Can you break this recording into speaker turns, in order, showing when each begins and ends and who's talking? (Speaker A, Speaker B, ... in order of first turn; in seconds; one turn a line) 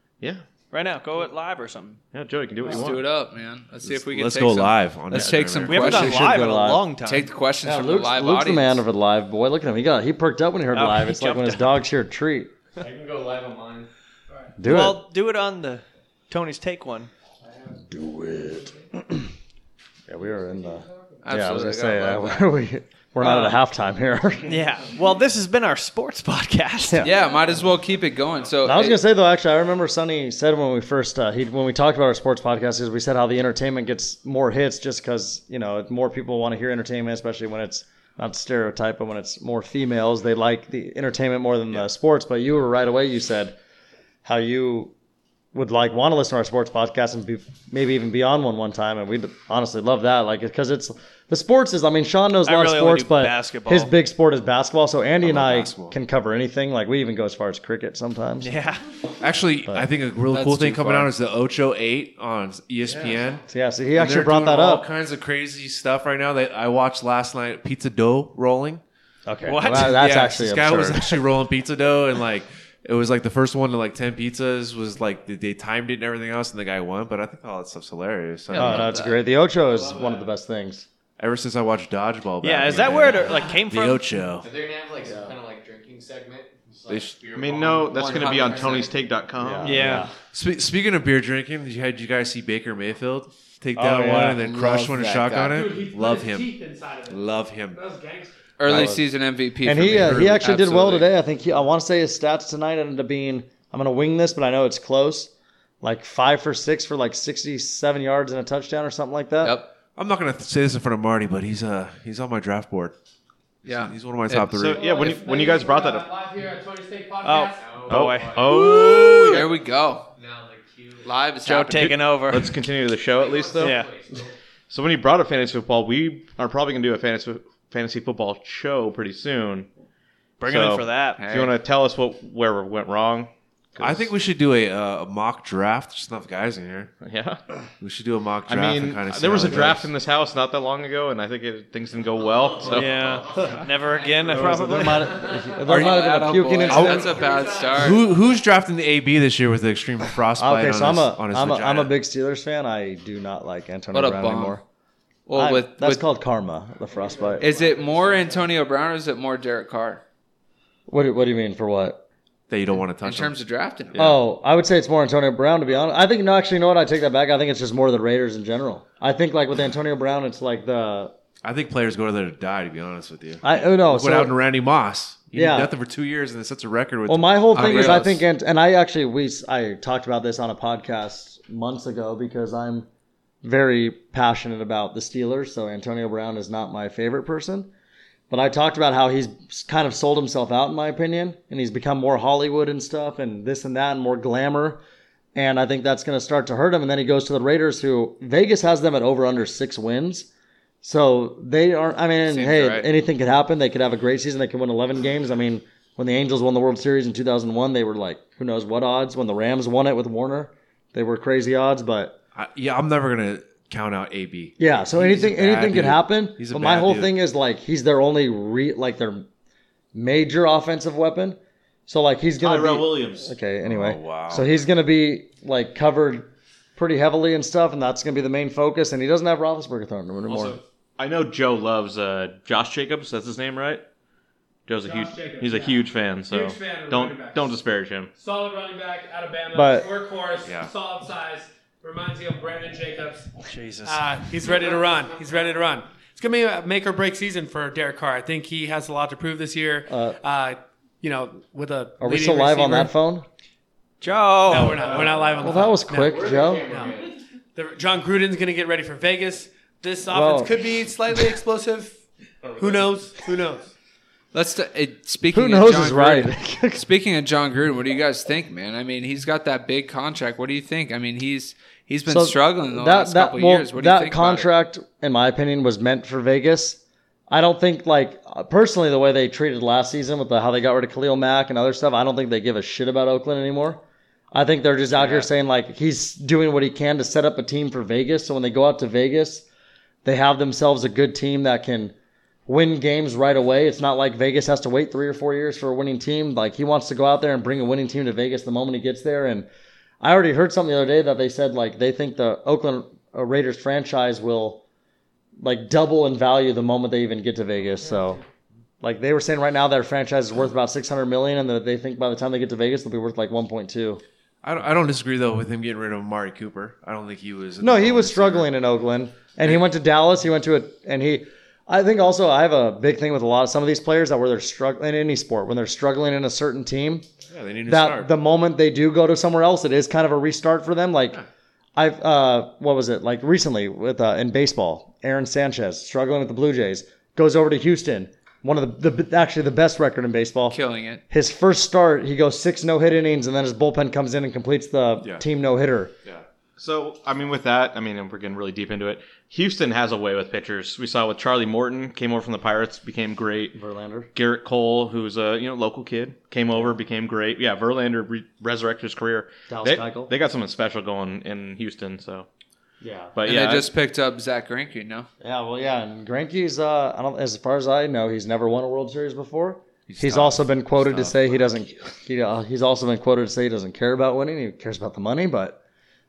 Speaker A: 0.7-2.0
Speaker B: 2.1-3.0
Speaker C: 2.7-6.2
Speaker D: 3.8-6.3
Speaker A: 5.7-7.3
Speaker E: 5.9-6.8
Speaker C: 7.0-8.8
Speaker E: 7.7-12.5
Speaker A: 10.7-11.8
Speaker F: 12.8-13.9
Speaker E: 14.6-15.0
Speaker A: 14.7-17.1
Speaker E: 17.9-19.3
Speaker E: 20.1-24.5
Speaker C: 21.2-22.5
Speaker A: 24.5-27.1
Speaker E: 26.8-27.1
Speaker C: 27.0-29.0
Speaker E: 28.6-43.6
Speaker E: 44.2-44.9
Speaker E: 45.5-58.5
Speaker A: 52.4-53.9
Speaker D: 55.2-56.0
Speaker A: 58.4-58.8
Speaker D: 59.2-63.4
Speaker C: 60.3-61.1
Speaker E: 63.5-64.9
Speaker D: 64.0-68.8
Speaker E: 69.3-71.2
Speaker A: 69.5-70.0
Speaker D: 69.7-78.9
Speaker C: 78.5-79.2
Speaker E: 78.5-80.9
Speaker F: 79.7-80.3
Speaker D: 81.2-84.5
Speaker A: 82.4-84.1
Speaker F: 84.4-88.9
Speaker E: 85.0-85.3
Speaker D: 86.9-87.2
Speaker B: 87.3-89.8
Speaker C: 87.9-88.9
Speaker E: 89.4-90.1
Speaker A: 89.7-90.1
Speaker D: 90.3-97.8
Speaker E: 93.8-94.4
Speaker C: 94.4-95.7
Speaker G: 95.5-98.4
Speaker C: 98.6-101.1
Speaker E: 98.7-99.0
Speaker E: 99.6-109.6
Speaker D: 99.9-100.6
Speaker C: 109.4-109.7
Speaker D: 110.0-113.0
Speaker D: 113.6-114.9
Speaker C: 113.7-114.6
Speaker B: 114.5-116.1
Speaker G: 114.7-117.8
Speaker A: 117.2-118.5
Speaker F: 117.6-118.7
Speaker B: 117.9-119.4
Speaker C: 118.5-120.1
Speaker F: 119.2-119.6
Speaker F: 120.2-121.1
Speaker C: 121.0-122.0
Speaker A: 121.5-122.6
Speaker B: 122.3-123.8
Speaker F: 123.1-124.3
Speaker A: 123.6-123.9
Speaker B: 124.7-129.7
Speaker A: 130.4-131.2
Speaker B: 130.4-134.1
Speaker C: 131.2-131.5
Speaker D: 133.8-136.9
Speaker B: 137.0-137.4
Speaker D: 137.8-139.9
Speaker B: 138.5-143.2
Speaker F: 142.2-145.9
Speaker A: 142.8-145.2
Speaker E: 144.3-147.0
Speaker B: 144.3-144.7
Speaker D: 145.7-147.2
Speaker C: 145.7-148.0
Speaker F: 146.6-148.2
Speaker D: 147.8-151.9
Speaker E: 150.4-154.6
Speaker C: 153.9-154.6
Speaker C: 155.3-156.0
Speaker E: 155.3-157.4
Speaker F: 157.2-158.3
Speaker C: 157.4-160.0
Speaker E: 160.9-162.0
Speaker D: 162.5-163.4
Speaker C: 163.0-164.1
Speaker D: 163.9-164.2
Speaker E: 164.0-171.1
Speaker D: 171.4-178.0
Speaker E: 173.4-174.3
Speaker E: 175.3-175.7
Speaker E: 177.1-182.9
Speaker C: 177.5-178.2
Speaker E: 183.4-187.7
Speaker E: 188.3-194.8
Speaker E: 195.3-200.3
Speaker E: 200.8-212.2
Speaker C: 202.3-202.9
Speaker D: 212.3-217.1
Speaker E: 214.6-219.3
Speaker E: 219.9-230.6
Speaker B: 222.4-223.3
Speaker D: 223.6-224.5
Speaker B: 231.0-233.8
Speaker B: 234.7-238.1
Speaker G: 234.8-237.6
Speaker G: 238.2-252.9
Speaker E: 239.5-239.9
Speaker D: 240.4-240.7
Speaker A: 243.5-244.1
Speaker E: 249.9-250.2
Speaker E: 252.0-253.3
Speaker A: 254.0-255.1
Speaker G: 254.5-257.0
Speaker F: 254.7-257.2
Speaker E: 255.4-256.7
Speaker G: 257.6-262.1
Speaker E: 260.1-260.5
Speaker F: 262.4-263.0
Speaker G: 262.6-263.7
Speaker C: 264.3-274.5
Speaker E: 265.3-266.8
Speaker E: 272.1-289.5
Speaker E: 290.1-291.9
Speaker E: 292.5-299.5
Speaker E: 300.0-304.6
Speaker E: 305.4-308.2
Speaker G: 307.8-308.2
Speaker E: 308.8-314.0
Speaker D: 314.4-318.5
Speaker E: 317.6-327.1
Speaker D: 327.3-328.1
Speaker E: 327.7-331.2
Speaker E: 331.8-340.6
Speaker C: 340.5-341.0
Speaker E: 341.1-345.9
Speaker B: 346.6-353.6
Speaker E: 353.5-354.1
Speaker B: 354.1-362.3
Speaker E: 359.5-360.1
Speaker E: 362.8-363.1
Speaker B: 363.1-363.7
Speaker C: 363.2-365.1
Speaker E: 365.2-375.6
Speaker D: 369.9-371.2